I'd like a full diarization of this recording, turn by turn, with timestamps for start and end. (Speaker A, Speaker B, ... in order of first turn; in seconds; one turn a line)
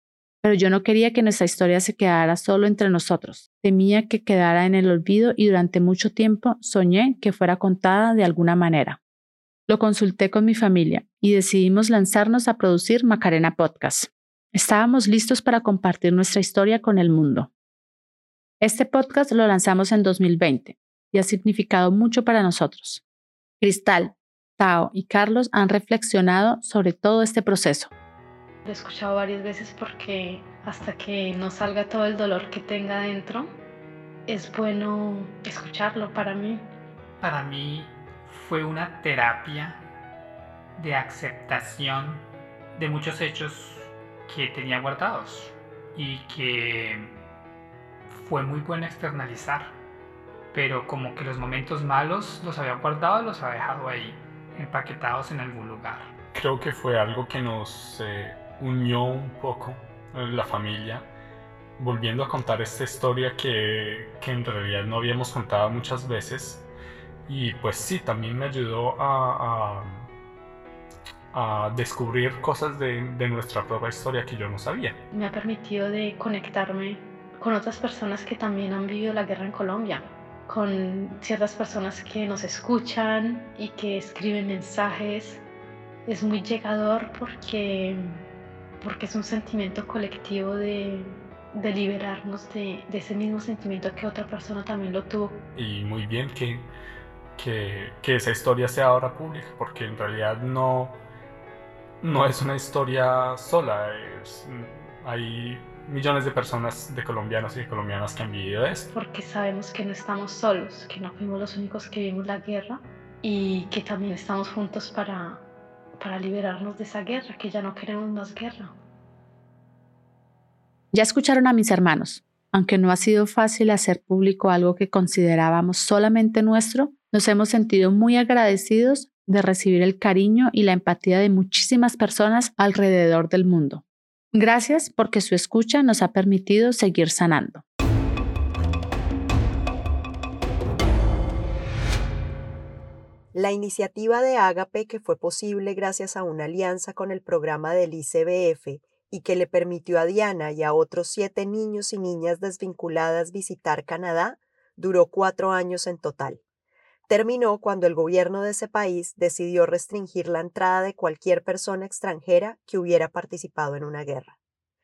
Speaker A: 0.4-9.0
Speaker A: 9.7-17.5
Speaker A: 18.6-23.0
Speaker A: 23.6-27.9
Speaker B: 28.6-33.5
Speaker B: 34.3-36.6
Speaker C: 37.2-39.8
Speaker C: 40.8-47.1
Speaker C: 48.1-49.8
Speaker C: 50.5-56.1
Speaker D: 56.3-61.1
Speaker D: 61.8-66.7
Speaker D: 67.3-70.1
Speaker D: 71.3-75.0
Speaker B: 75.1-85.4
Speaker B: 86.1-88.2
Speaker B: 88.8-95.4
Speaker D: 95.5-96.7
Speaker D: 97.4-101.0
Speaker D: 102.0-108.9
Speaker B: 108.9-115.4
Speaker B: 116.0-118.7
Speaker A: 120.9-137.6
Speaker E: 143.3-156.4
Speaker E: 157.1-164.3